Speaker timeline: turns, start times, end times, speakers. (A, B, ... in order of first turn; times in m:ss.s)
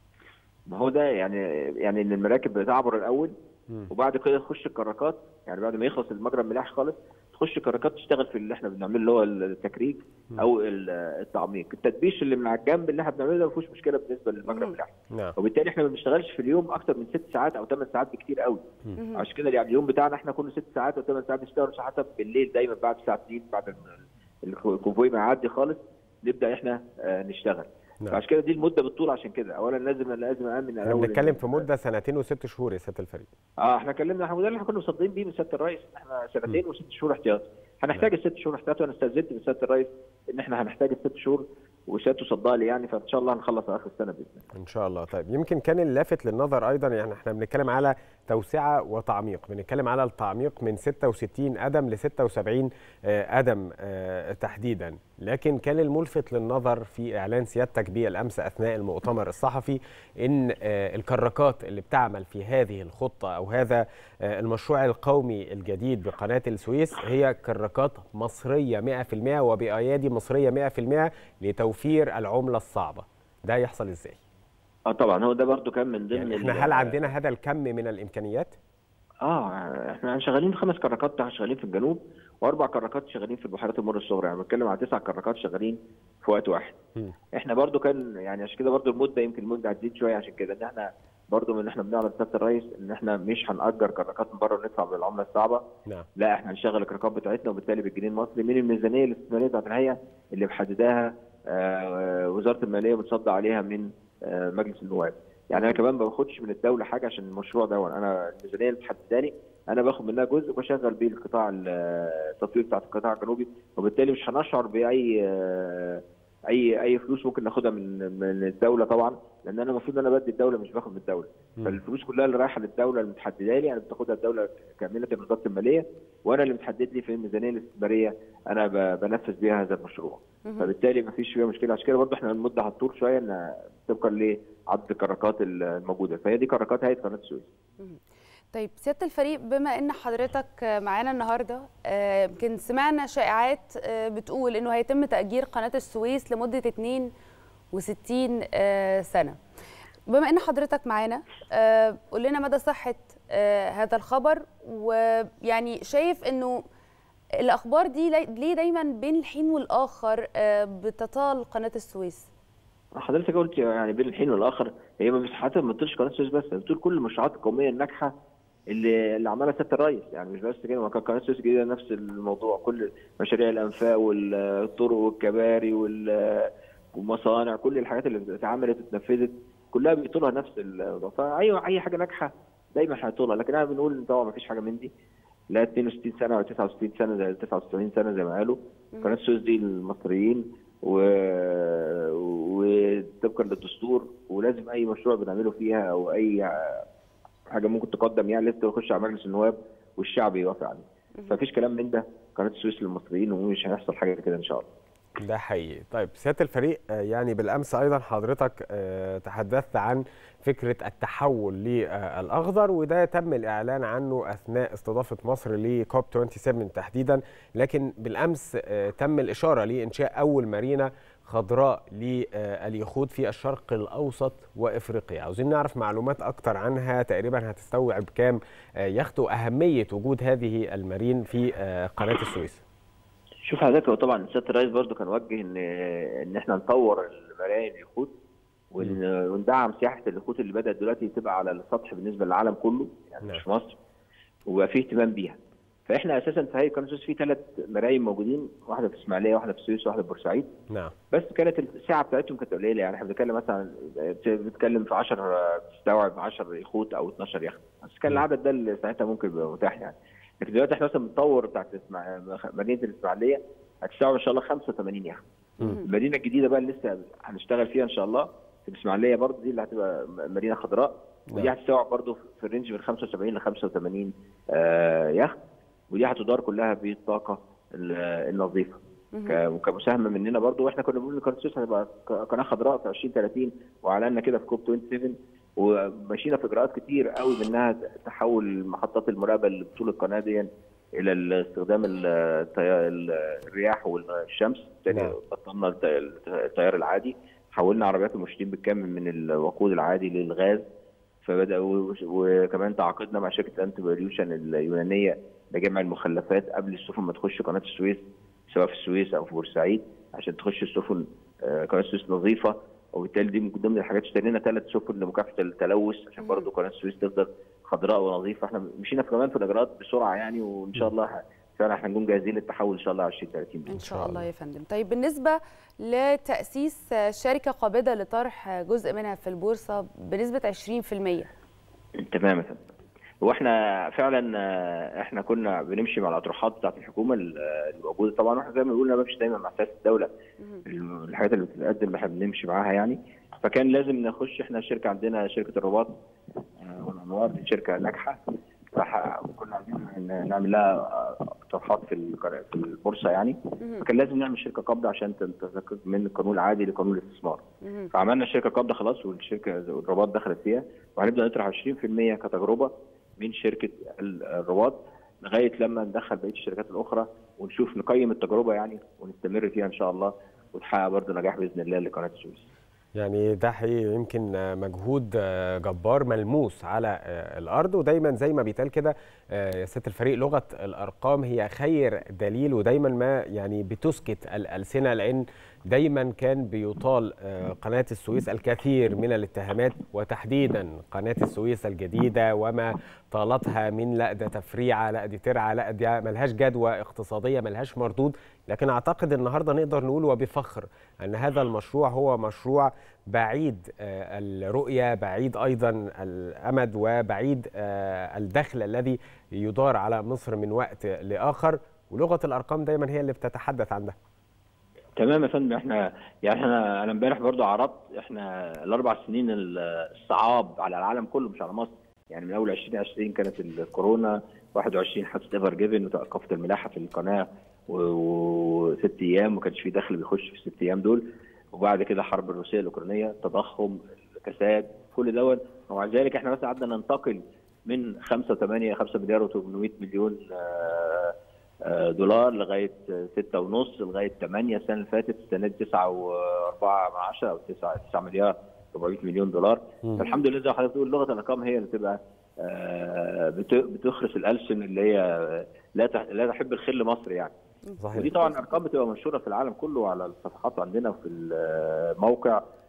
0:00.7-0:03.3 A
0:03.9-0:18.6 A
0:14.5-0:14.8 B
0:19.0-0:19.2 B
0:19.2-0:31.6 A
0:30.8-0:33.3 C
0:33.6-0:44.4 A
0:44.6-1:14.2 C
1:14.9-1:16.9 A
1:16.1-1:18.5 C
1:19.2-1:26.8 A
1:27.3-1:35.6 A
1:36.2-2:17.5 A
1:45.5-1:45.8 B
2:10.4-2:10.7 B
2:18.5-2:27.1 B
2:27.7-2:29.4 B
2:30.1-2:36.6 B
2:37.4-2:42.3 B
2:43.0-2:48.1 A
2:48.7-3:04.9 A
3:05.5-3:16.8 A
3:08.9-3:09.2 B
3:17.5-3:24.6 A
3:25.2-3:52.6 C
3:53.4-3:58.1 A
3:58.7-4:03.8 A
4:04.5-4:10.5 A
4:11.1-4:25.2 A
4:25.8-4:35.4 A
4:35.9-5:00.6 A
4:39.1-4:39.4 B
5:01.2-5:23.7 A
5:16.2-5:16.5 B
5:23.7-5:24.2 C
5:23.7-5:31.3 B
5:32.0-5:32.6 A
5:33.2-5:40.1 A
5:40.6-5:45.9 A
5:46.6-5:57.4 A
5:53.6-5:53.8 B
5:57.6-5:57.9 B
5:57.9-6:12.4 A
6:13.0-6:54.0 C
6:55.0-7:37.3 A
7:37.7-7:38.5 B
7:37.8-7:38.1 C
7:37.9-7:42.4 A